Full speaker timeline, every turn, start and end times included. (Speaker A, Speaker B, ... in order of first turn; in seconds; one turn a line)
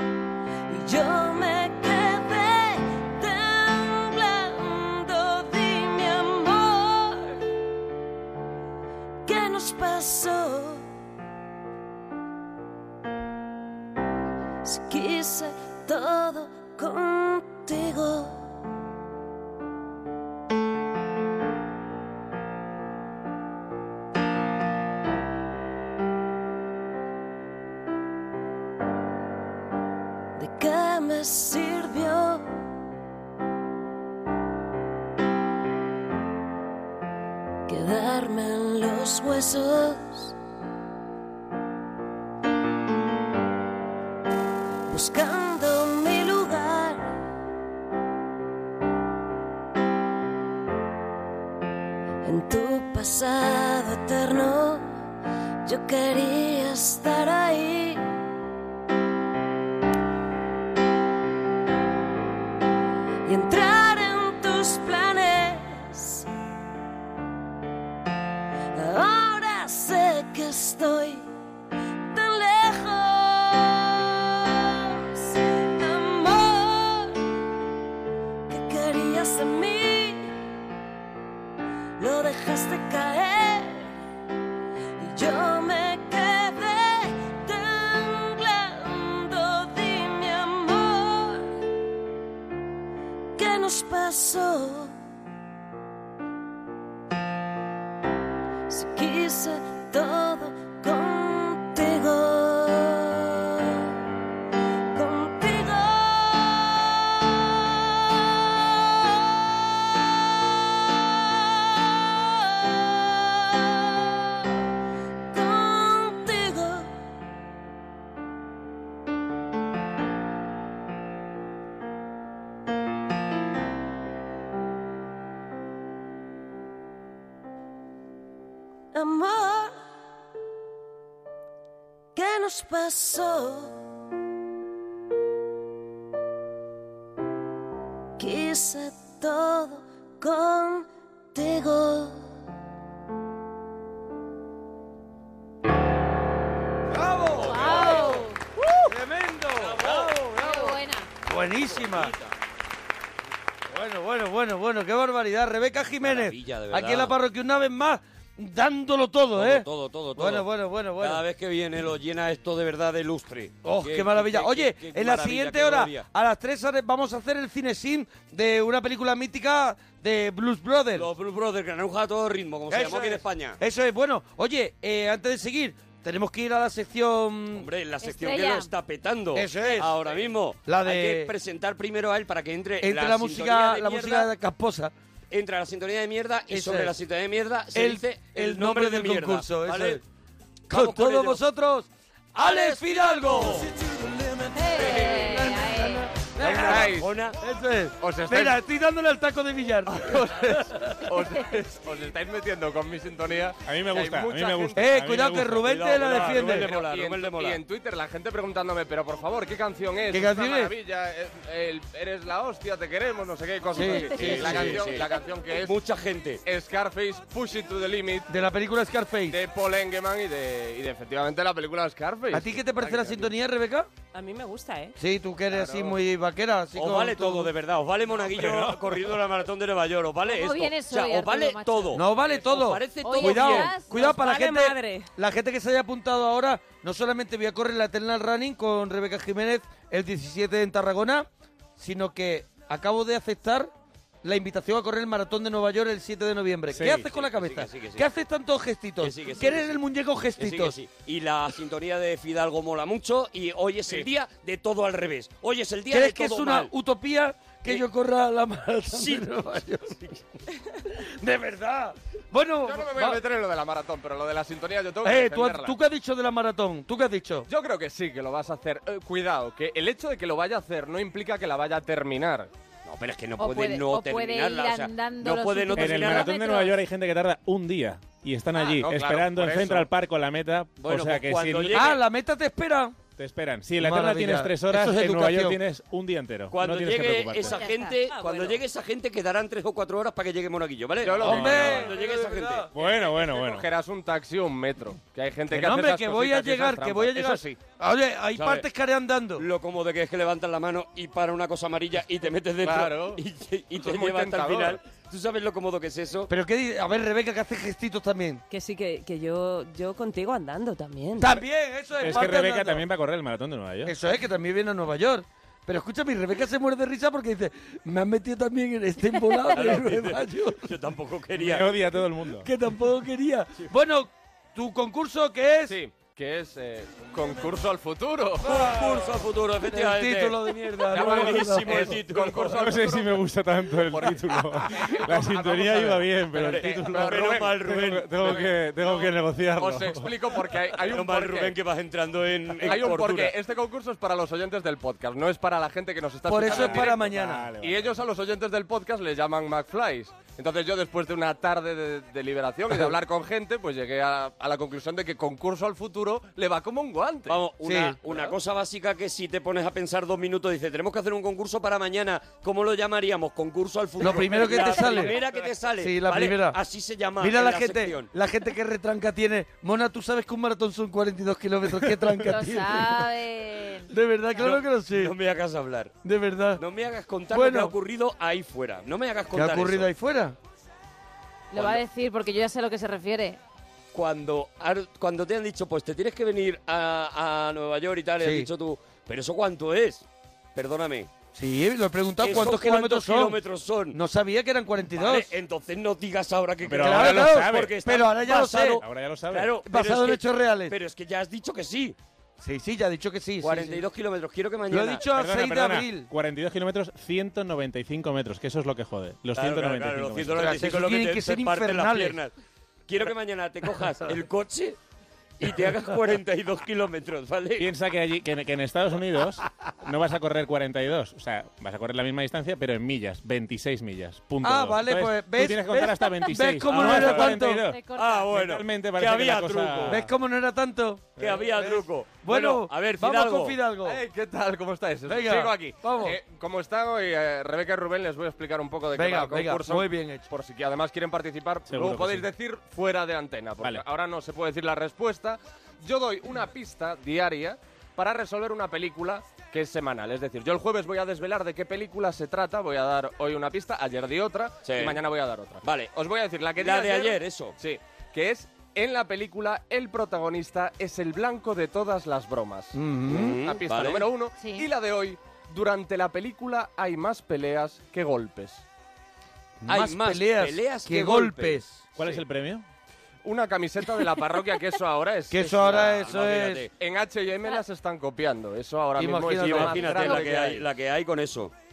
Speaker A: 0.7-7.5
Speaker A: 9.3-10.8
Speaker A: 14.6-18.4
Speaker A: 30.4-32.5
Speaker A: 37.7-40.4
Speaker A: 44.9-47.2
Speaker A: 52.2-54.9
Speaker A: 55.7-58.0
Speaker A: 63.3-66.3
Speaker A: 68.7-71.3
Speaker A: 72.1-77.2
Speaker A: 78.5-80.4
Speaker A: 82.0-84.0
Speaker A: 85.0-91.6
Speaker A: 93.4-95.0
Speaker A: 98.7-104.0
Speaker A: 104.9-114.5
Speaker A: 115.3-116.9
Speaker A: 128.9-129.8
Speaker A: 132.2-133.8
Speaker A: 138.2-142.3
Speaker B: 146.9-148.2
Speaker C: 147.4-148.2
Speaker D: 147.4-148.8
Speaker B: 148.9-152.1
Speaker C: 149.6-150.1
Speaker D: 150.4-151.1
Speaker C: 151.7-152.3
Speaker B: 153.7-161.2
Speaker C: 156.0-157.2
Speaker C: 159.4-160.5
Speaker C: 161.0-166.1
Speaker B: 163.6-171.1
Speaker C: 170.9-173.6
Speaker B: 172.7-177.7
Speaker C: 177.6-184.3
Speaker D: 178.0-178.7
Speaker B: 179.3-180.0
Speaker B: 180.7-181.3
Speaker B: 182.8-184.9
Speaker C: 185.3-190.0
Speaker B: 186.5-186.9
Speaker B: 187.7-190.0
Speaker C: 190.7-191.4
Speaker B: 190.7-193.7
Speaker C: 192.4-193.7
Speaker D: 194.6-196.1
Speaker B: 194.8-200.8
Speaker C: 196.4-197.4
Speaker E: 196.5-197.1
Speaker E: 198.0-198.5
Speaker E: 200.0-204.8
Speaker F: 203.6-205.8
Speaker B: 204.8-206.7
Speaker C: 205.7-207.6
Speaker E: 206.6-215.8
Speaker B: 210.1-210.7
Speaker B: 213.8-214.9
Speaker C: 213.8-215.1
Speaker C: 215.6-216.4
Speaker E: 216.4-218.3
Speaker B: 218.3-219.4
Speaker E: 219.3-223.3
Speaker B: 222.3-223.9
Speaker G: 224.1-225.0
Speaker B: 225.0-227.5
Speaker C: 225.6-225.9
Speaker C: 226.8-233.7
Speaker F: 228.3-228.7
Speaker D: 230.3-232.0
Speaker B: 231.9-243.7
Speaker D: 233.0-233.9
Speaker G: 233.2-235.1
Speaker B: 244.2-250.8
Speaker F: 246.8-247.0
Speaker C: 247.1-248.1
Speaker C: 249.0-249.8
Speaker C: 250.4-256.7
Speaker B: 255.9-260.0
Speaker C: 258.9-259.3
Speaker B: 261.2-263.2
Speaker E: 262.6-265.7
Speaker B: 265.0-267.5
Speaker E: 267.5-272.5
Speaker C: 272.9-276.3
Speaker D: 273.4-276.8
Speaker F: 275.8-281.9
Speaker E: 278.7-279.9
Speaker C: 280.8-282.0
Speaker B: 281.7-283.0
Speaker F: 283.2-287.6
Speaker B: 283.8-285.6
Speaker C: 286.5-292.7
Speaker D: 287.4-288.0
Speaker G: 287.6-288.6
Speaker E: 291.0-291.9
Speaker B: 291.2-292.7
Speaker F: 291.4-291.7
Speaker F: 292.8-293.7
Speaker E: 292.8-297.6
Speaker B: 295.5-299.4
Speaker C: 298.4-298.6
Speaker C: 299.4-306.3
Speaker E: 302.6-303.2
Speaker E: 303.8-304.8
Speaker B: 306.3-308.4
Speaker G: 308.5-311.4
Speaker B: 311.2-312.9
Speaker F: 312.0-313.9
Speaker B: 313.9-320.7
Speaker C: 319.5-321.6
Speaker F: 321.4-322.5
Speaker B: 322.4-325.8
Speaker E: 325.7-328.4
Speaker B: 328.4-329.0
Speaker C: 328.4-332.7
Speaker B: 329.7-332.0
Speaker E: 330.9-332.9
Speaker F: 332.5-340.1
Speaker E: 334.8-337.4
Speaker C: 335.3-338.5
Speaker E: 339.6-341.6
Speaker C: 340.9-343.3
Speaker E: 342.6-347.0
Speaker B: 346.3-347.5
Speaker F: 346.5-347.9
Speaker E: 347.6-357.4
Speaker C: 357.3-368.1
Speaker B: 357.6-358.0
Speaker B: 364.0-365.2
Speaker B: 365.8-366.6
Speaker B: 367.2-373.1
Speaker D: 372.2-373.9
Speaker B: 373.9-375.1
Speaker C: 374.4-375.9
Speaker B: 376.0-376.6
Speaker C: 376.6-379.9
Speaker B: 377.3-377.7
Speaker B: 379.3-380.4
Speaker D: 381.5-383.4
Speaker C: 381.6-381.8
Speaker C: 383.9-391.1
Speaker B: 388.2-388.5
Speaker B: 391.4-393.4
Speaker C: 392.2-394.0
Speaker B: 393.9-395.3
Speaker C: 394.9-402.0
Speaker F: 396.7-397.8
Speaker B: 396.8-398.8
Speaker F: 398.8-399.6
Speaker B: 399.7-400.8
Speaker B: 402.4-403.8
Speaker C: 403.4-405.0
Speaker B: 404.7-406.1
Speaker F: 405.1-410.6
Speaker C: 409.4-412.3
Speaker B: 410.3-412.2
Speaker C: 412.9-414.8
Speaker C: 415.4-417.7
Speaker F: 417.6-430.0
Speaker B: 424.4-427.6
Speaker C: 426.7-427.4
Speaker D: 427.7-428.3
Speaker C: 427.9-430.0
Speaker B: 429.9-434.0
Speaker C: 431.2-433.6
Speaker E: 433.9-462.8
Speaker B: 435.1-436.2
Speaker B: 438.9-440.3
Speaker F: 441.7-442.3
Speaker C: 454.6-455.0
Speaker C: 455.6-455.9
Speaker C: 456.6-457.6
Speaker B: 462.7-463.4
Speaker C: 463.1-464.1
Speaker E: 463.4-468.6
Speaker D: 464.4-464.7
Speaker B: 469.6-471.8
Speaker C: 469.7-472.2
Speaker F: 472.0-472.6
Speaker E: 473.2-480.6
Speaker B: 475.3-476.6
Speaker C: 475.5-476.7
Speaker B: 479.0-480.2
Speaker C: 479.4-481.5